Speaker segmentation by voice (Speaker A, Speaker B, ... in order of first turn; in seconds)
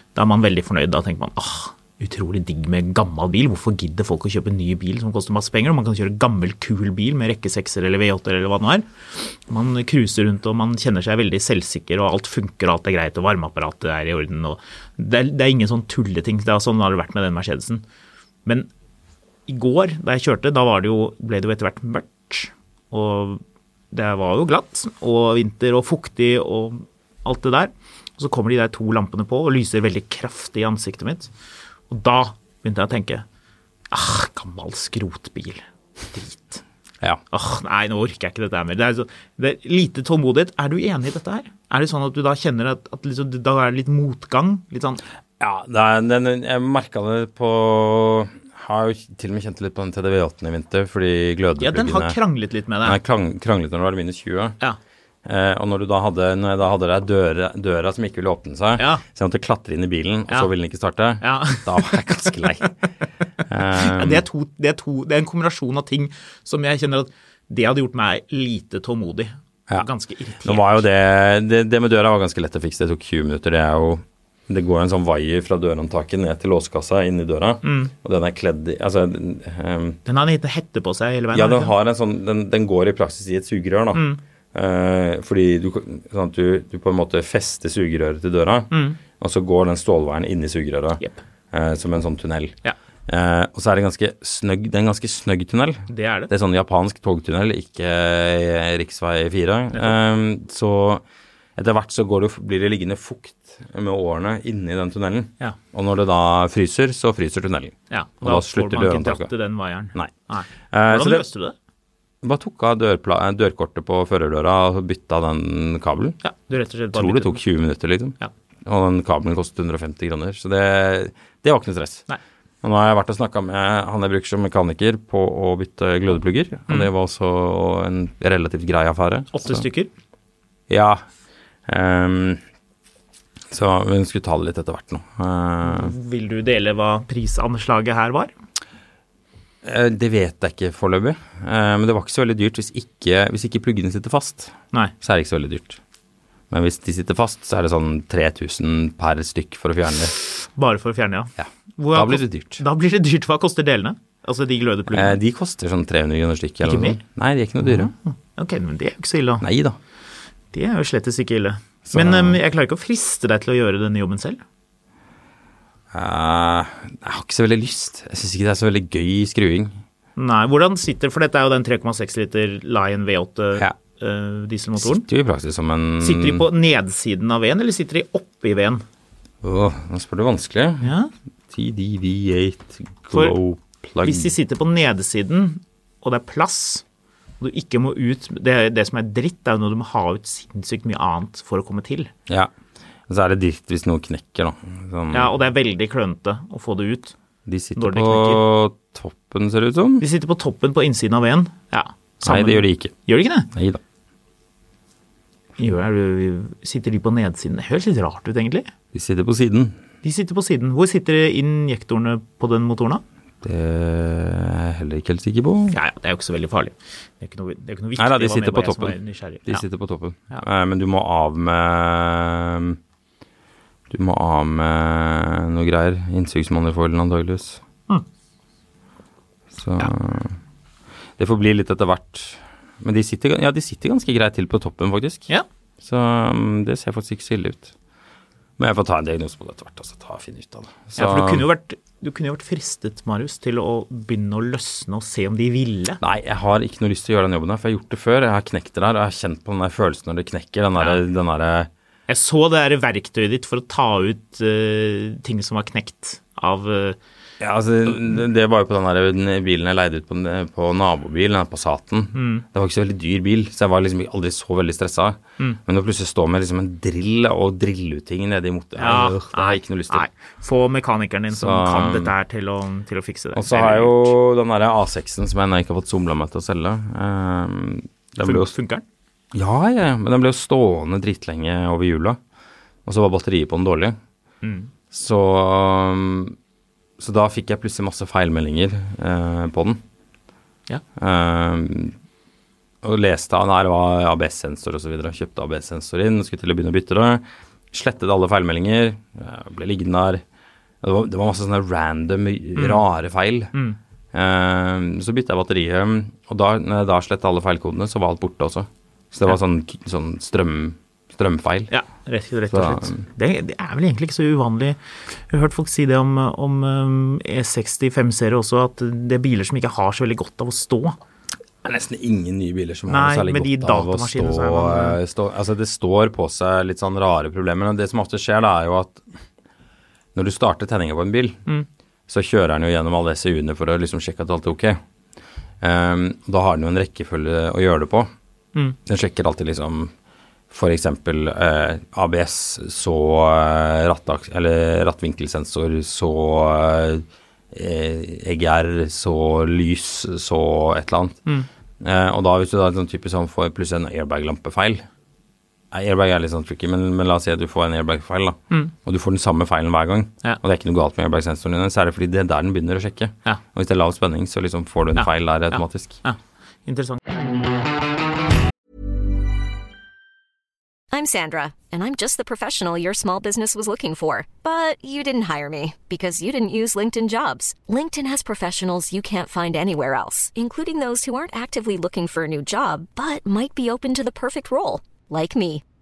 Speaker A: 0.1-17.8, 19.5-23.4, 23.9-31.3, 31.9-33.2, 33.9-36.6, 37.3-45.0, 51.6-53.0, 58.8-59.0, 61.2-62.7, 63.7-70.8, 77.6-77.9, 80.1-81.7, 83.9-84.2, 88.7-89.0, 95.9-96.3, 107.9-111.5, 116.2-117.4, 129.3-129.9, 135.6-138.3, 150.4-155.2, 156.6-157.0, 157.6-159.4, 160.5-164.4, 170.2-175.1, 176.0-178.8, 180.8-181.1, 183.1-183.4, 184.0-186.8, 187.4-192.1, 195.1-197.1, 197.8-198.4, 200.0-203.5, 205.6-208.7, 210.0-213.0, 215.7-219.6, 240.9-246.0, 252.1-257.0, 262.1-262.4, 268.8-274.1, 278.2-278.8, 284.4-284.7, 302.6-302.8, 311.7-314.8, 315.3-321.0, 322.9-325.0, 364.9-367.0
Speaker B: 45.4-52.2, 52.8-54.6, 55.2-62.7, 63.5-64.2, 70.4-80.0, 81.3-91.0, 91.5-101.0, 101.6-109.3, 110.7-111.3, 112.2-116.2, 116.9-122.0, 122.6-129.6, 130.7-131.0, 131.7-132.4, 133.5-135.9, 139.6-145.8, 146.5-150.1, 151.4-152.6, 154.9-157.9, 159.4-159.8, 161.9-162.4, 165.9-169.8, 174.8-176.4, 179.4-180.9, 181.5-184.3, 193.1-195.3, 197.4-200.0, 202.2-202.9, 203.5-203.8, 208.9-209.8, 213.4-215.8, 218.0-222.8, 223.9-227.6, 229.5-230.4, 231.2-235.3, 235.8-237.7, 238.6-241.4, 246.0-251.7, 257.4-270.1, 271.3-272.1, 273.4-278.5, 279.3-282.2, 282.9-283.9, 284.9-286.4, 287.0-289.8, 291.0-291.9, 292.8-300.2, 300.8-303.5, 304.1-311.7, 312.5-313.0, 321.6-329.1, 330.1-331.4, 332.1-334.8, 335.6-338.1, 338.9-339.9, 340.5-351.2, 351.8-354.9, 355.7-366.0
Speaker C: 370.9-385.6